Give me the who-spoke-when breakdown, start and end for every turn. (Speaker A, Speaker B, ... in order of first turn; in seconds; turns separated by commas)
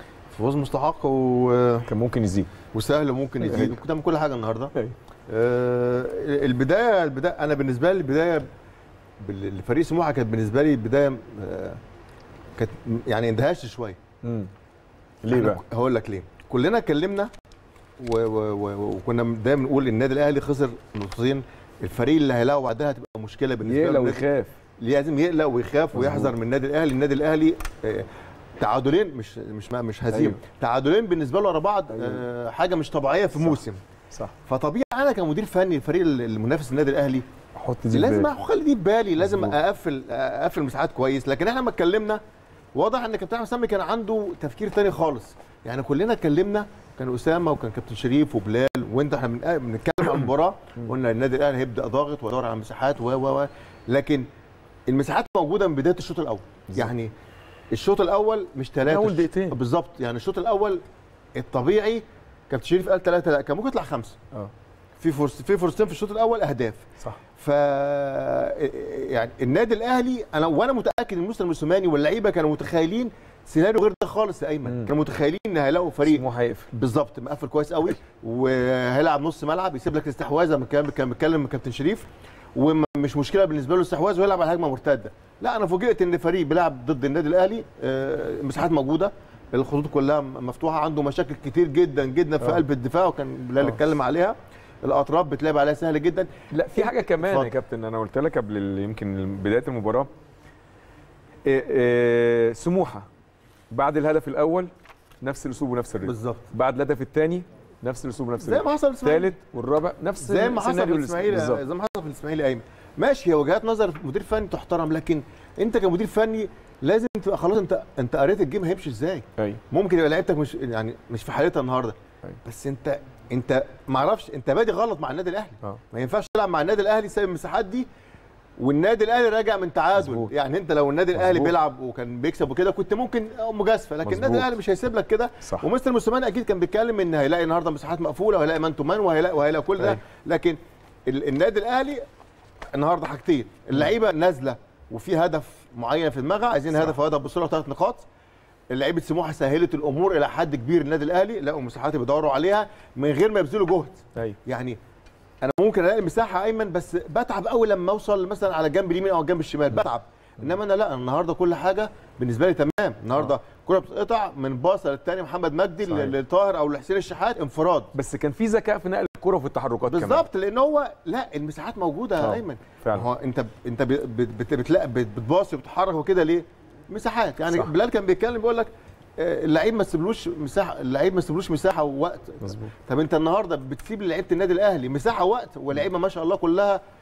Speaker A: 0.3-1.9, Speaker B: 1.9-2.5, Speaker A: 2.7-4.7, Speaker B: 3.4-3.8, Speaker A: 5.3-8.5, Speaker A: 9.2-11.8, Speaker A: 12.6-14.0, Speaker B: 14.2-14.5, Speaker B: 15.2-15.6, Speaker A: 15.3-17.3, Speaker A: 18.0-24.3, Speaker B: 23.6-24.5, Speaker A: 24.8-28.1, Speaker B: 25.9-26.3, Speaker A: 28.6-33.8, Speaker B: 30.1-30.4, Speaker B: 31.9-32.2, Speaker A: 34.5-37.2, Speaker B: 37.6-38.3, Speaker A: 37.9-42.2, Speaker B: 39.2-39.6, Speaker A: 42.8-54.2, Speaker A: 54.9-57.1, Speaker A: 57.7-60.8, Speaker B: 58.8-59.6, Speaker A: 61.4-64.2, Speaker A: 65.0-66.9, Speaker A: 67.4-97.5, Speaker B: 74.7-74.9, Speaker B: 76.0-76.7, Speaker B: 96.5-100.1, Speaker B: 101.5-103.1, Speaker B: 103.7-111.6, Speaker A: 106.0-106.5, Speaker A: 108.4-109.3, Speaker A: 110.2-127.9, Speaker A: 128.6-140.6, Speaker B: 130.0-130.3, Speaker B: 131.1-131.5, Speaker B: 134.0-134.5, Speaker A: 141.1-142.0, Speaker A: 142.7-148.1, Speaker A: 148.7-154.8, Speaker A: 155.4-167.9, Speaker B: 165.9-166.2, Speaker B: 167.9-170.2, Speaker A: 169.9-186.8, Speaker B: 172.2-173.1, Speaker B: 182.4-182.7